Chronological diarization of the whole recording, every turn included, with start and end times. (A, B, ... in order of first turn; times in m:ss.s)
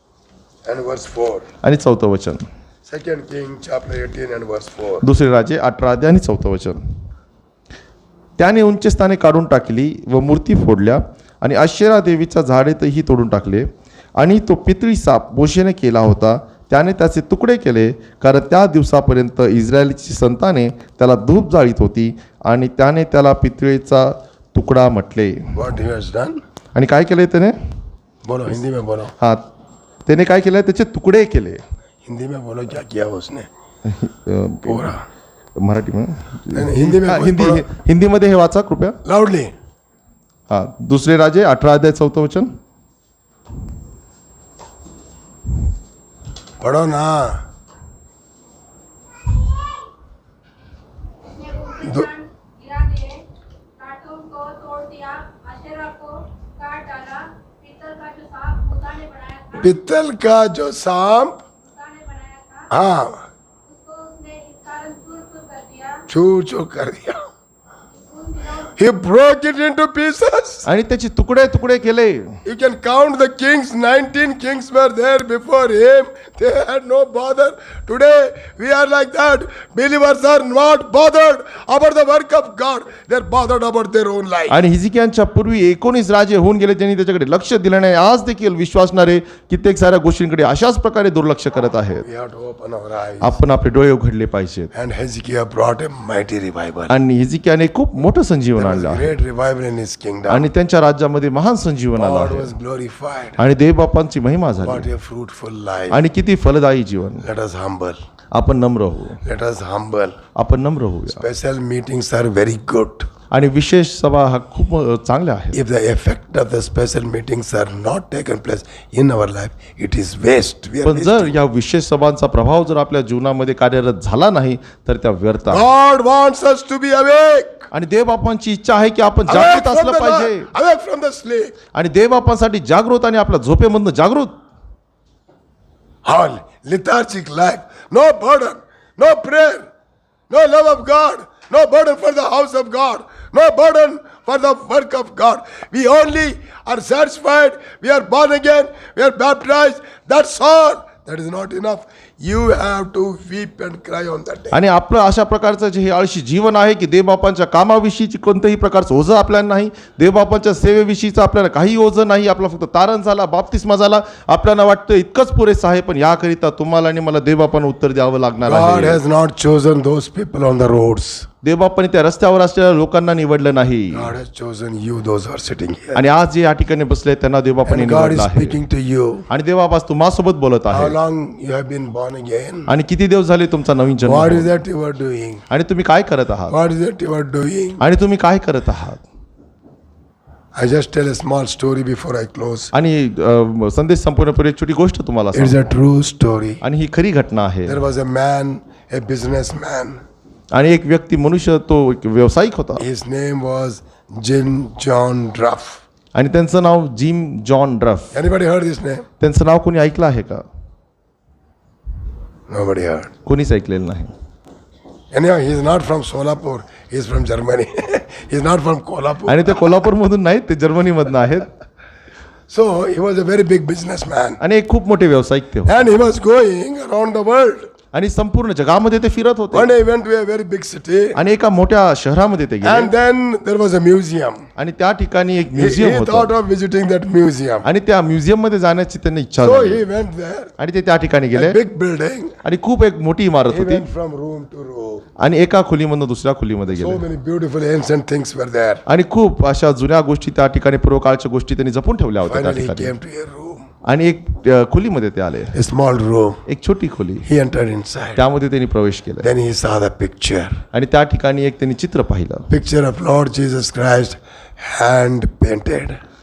0:00.6-0:01.5 A
0:01.6-0:02.4 B
0:02.9-0:05.0 A
0:05.0-0:06.8 B
0:08.4-0:25.5 B
0:25.5-0:26.4 A
0:26.8-0:27.6 B
0:28.2-0:29.1 A
0:29.2-0:29.4 B
0:30.1-0:31.6 B
0:32.0-0:33.5 A
0:33.8-0:34.9 B
0:34.6-0:35.0 A
0:35.6-0:39.0 B
0:36.5-0:37.7 A
0:39.0-0:39.5 A
0:40.5-0:42.5 B
0:46.6-0:47.4 A
0:51.4-0:53.2 C
0:51.8-0:52.1 A
0:53.8-0:59.6 C
0:59.6-1:01.4 A
1:01.7-1:02.7 C
1:02.7-1:03.2 A
1:03.7-1:06.0 C
1:06.1-1:07.2 A
1:08.0-1:08.7 C
1:08.8-1:10.7 A
1:10.7-1:12.4 B
1:12.4-1:24.6 A
1:24.5-1:32.0 B
1:32.0-1:33.4 A
1:33.2-1:34.7 B
1:34.7-1:37.0 A
1:36.9-1:39.1 B
1:38.6-1:40.5 A
1:40.3-1:42.5 B
1:42.0-1:43.4 A
1:43.4-1:44.9 B
1:44.6-1:46.0 A
1:45.9-1:47.3 B
1:47.2-1:48.0 A
1:48.3-1:49.2 B
1:49.2-1:50.2 A
1:50.4-1:51.2 B
1:51.1-1:53.1 A
1:53.3-1:55.6 B
1:55.5-2:01.4 A
2:00.8-2:05.7 B
2:05.5-2:07.7 A
2:07.7-2:10.5 B
2:09.3-2:11.5 A
2:11.7-2:14.3 B
2:16.0-2:19.7 A
2:20.3-2:34.6 A
2:34.5-2:49.0 B
2:48.4-2:51.3 A
2:51.4-2:54.1 B
2:53.9-2:56.0 A
2:56.0-2:58.6 B
2:57.7-2:59.3 A
2:59.3-3:01.0 B
3:00.7-3:02.7 A
3:02.7-3:04.5 B
3:04.0-3:05.5 A
3:05.5-3:06.6 B
3:06.5-3:07.8 A
3:07.8-3:09.0 B
3:10.6-3:12.7 A
3:12.7-3:15.6 B
3:15.3-3:16.6 A
3:16.6-3:17.8 B
3:17.7-3:20.0 A
3:20.5-3:22.8 B
3:22.8-3:25.8 A
3:26.2-3:28.2 B
3:28.1-3:29.1 A
3:29.2-3:30.4 B
3:32.5-3:33.1 A
3:33.3-3:34.1 B
3:35.1-3:39.8 A
3:39.3-3:41.5 B
3:42.5-3:44.4 A
3:44.4-3:45.9 B
3:45.6-3:47.7 A
3:47.9-3:49.7 B
3:49.5-3:51.2 A
3:51.2-3:52.9 B
3:52.6-3:54.4 A
3:54.6-3:56.3 B
3:55.5-3:57.7 A
3:57.6-3:59.8 B
3:59.4-4:00.5 A
4:00.6-4:01.6 B
4:01.3-4:02.3 A
4:02.4-4:03.9 B
4:03.5-4:05.0 A
4:05.2-4:07.0 B
4:06.7-4:08.8 A
4:08.9-4:12.9 B
4:12.2-4:13.7 A
4:13.8-4:15.6 B
4:15.5-4:16.4 A
4:16.5-4:17.2 B
4:17.2-4:18.2 A
4:18.2-4:19.3 B
4:19.2-4:20.6 A
4:20.7-4:22.5 B
4:22.5-4:26.0 A